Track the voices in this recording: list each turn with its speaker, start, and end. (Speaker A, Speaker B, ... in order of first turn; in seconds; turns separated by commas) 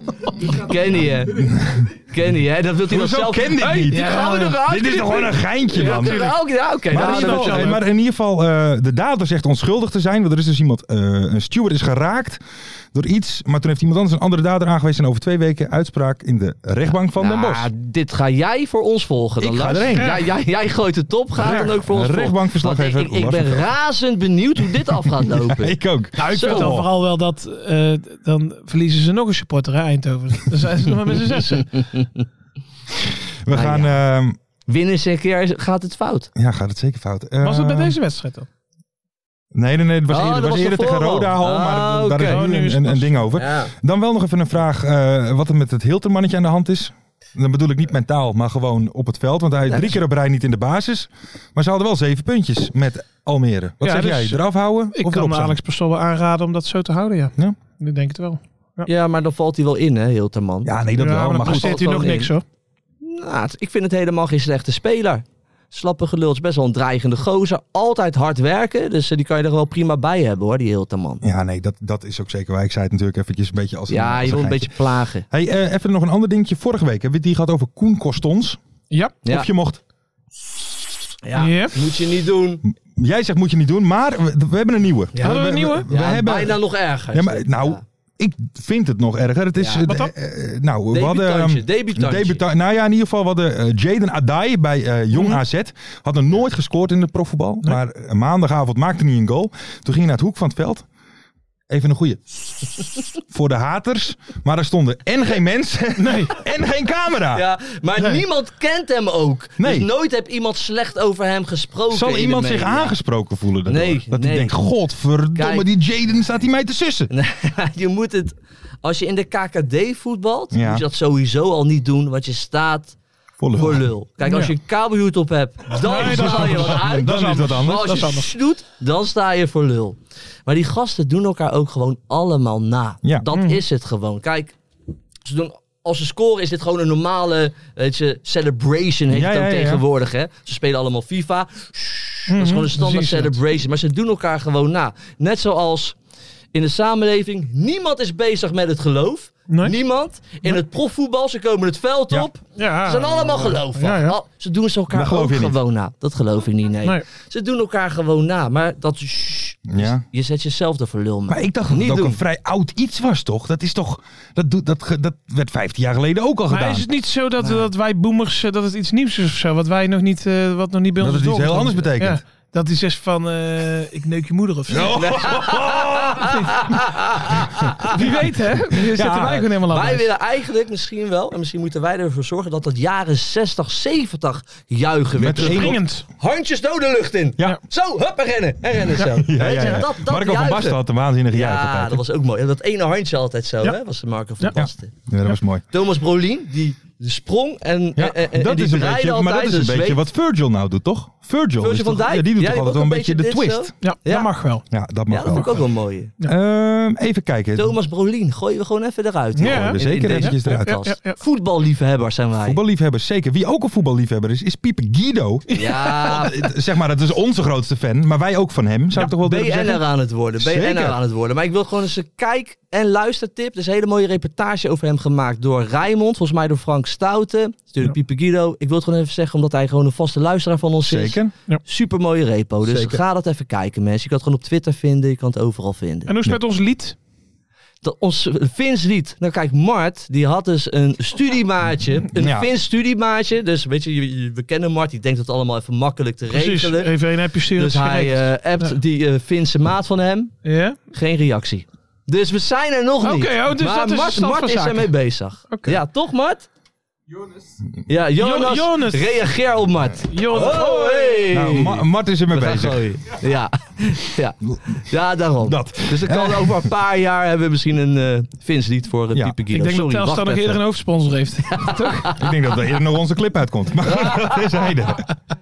Speaker A: 0.7-1.3, Speaker B: 1.0-1.9, Speaker A: 2.1-7.7, Speaker B: 2.8-12.4, Speaker C: 3.6-4.6, Speaker C: 5.7-7.8, Speaker B: 12.9-17.7, Speaker A: 17.2-25.7, Speaker B: 19.4-20.2, Speaker C: 19.9-20.2, Speaker C: 21.4-21.7, Speaker B: 21.4-23.7, Speaker B: 24.7-26.9, Speaker C: 26.2-31.8, Speaker A: 26.3-26.7, Speaker B: 33.5-34.4, Speaker A: 33.5-33.9, Speaker A: 34.7-36.3, Speaker B: 36.3-38.0, Speaker C: 37.4-38.5, Speaker B: 39.5-55.6, Speaker A: 40.1-42.4, Speaker C: 42.3-43.3, Speaker A: 43.4-43.7, Speaker A: 49.7-50.0, Speaker C: 53.8-54.4, Speaker C: 54.9-58.9, Speaker A: 58.9-60.7, Speaker B: 60.6-61.9, Speaker C: 61.0-62.4, Speaker A: 61.5-62.3, Speaker A: 63.0-71.2, Speaker B: 71.2-78.6, Speaker A: 73.9-75.2, Speaker C: 78.9-79.2, Speaker B: 79.2-79.8, Speaker A: 81.3-82.6, Speaker C: 81.3-81.8, Speaker B: 82.6-100.8, Speaker C: 85.2-85.9, Speaker A: 85.9-87.8, Speaker C: 89.9-90.1, Speaker A: 90.9-92.4, Speaker C: 95.1-95.4, Speaker B: 101.7-107.5, Speaker C: 106.0-106.4, Speaker A: 107.3-112.9, Speaker C: 108.0-108.2, Speaker B: 109.6-109.9, Speaker B: 111.9-117.1, Speaker A: 113.7-114.5, Speaker A: 115.4-115.6, Speaker A: 117.1-122.9, Speaker B: 120.5-120.8, Speaker B: 123.4-123.9, Speaker A: 123.6-127.1, Speaker C: 124.2-124.5, Speaker C: 125.7-128.3, Speaker B: 125.8-127.9, Speaker A: 127.6-134.5, Speaker C: 133.3-133.6, Speaker A: 135.2-145.9, Speaker B: 139.1-139.8, Speaker C: 142.3-143.4, Speaker A: 146.5-162.2, Speaker C: 149.5-149.8, Speaker C: 152.6-154.2, Speaker B: 154.9-155.6, Speaker B: 159.7-160.0, Speaker B: 161.3-166.9, Speaker C: 166.5-175.1, Speaker B: 171.0-172.2, Speaker B: 174.7-176.3, Speaker A: 175.1-175.7, Speaker C: 176.2-176.5, Speaker C: 177.9-180.1, Speaker B: 178.7-179.5, Speaker A: 179.7-190.7, Speaker B: 185.2-185.8, Speaker C: 185.3-186.0, Speaker B: 189.0-192.0, Speaker A: 191.3-194.9, Speaker B: 194.5-195.6, Speaker A: 195.7-200.0, Speaker B: 197.9-203.7, Speaker A: 201.6-204.3, Speaker C: 203.8-204.7, Speaker B: 204.7-205.6, Speaker A: 205.1-206.1, Speaker C: 205.2-205.6, Speaker B: 206.2-207.8, Speaker A: 207.6-212.6, Speaker C: 209.3-211.2, Speaker B: 209.4-210.7, Speaker B: 212.4-221.0, Speaker C: 215.6-216.0, Speaker A: 215.6-216.3, Speaker A: 219.2-236.1, Speaker B: 230.8-231.3, Speaker B: 232.6-233.0, Speaker C: 236.1-236.9, Speaker A: 237.8-246.9, Speaker B: 242.1-242.5, Speaker C: 246.3-248.8, Speaker A: 247.6-250.3, Speaker C: 250.4-250.8, Speaker A: 250.9-256.4, Speaker C: 253.0-255.8, Speaker A: 257.9-261.8, Speaker C: 258.1-259.2, Speaker C: 260.0-261.4, Speaker B: 261.3-263.0, Speaker A: 262.3-264.3, Speaker A: 264.9-270.6, Speaker B: 265.4-266.7, Speaker B: 269.1-269.4, Speaker C: 269.5-272.1, Speaker B: 272.1-275.1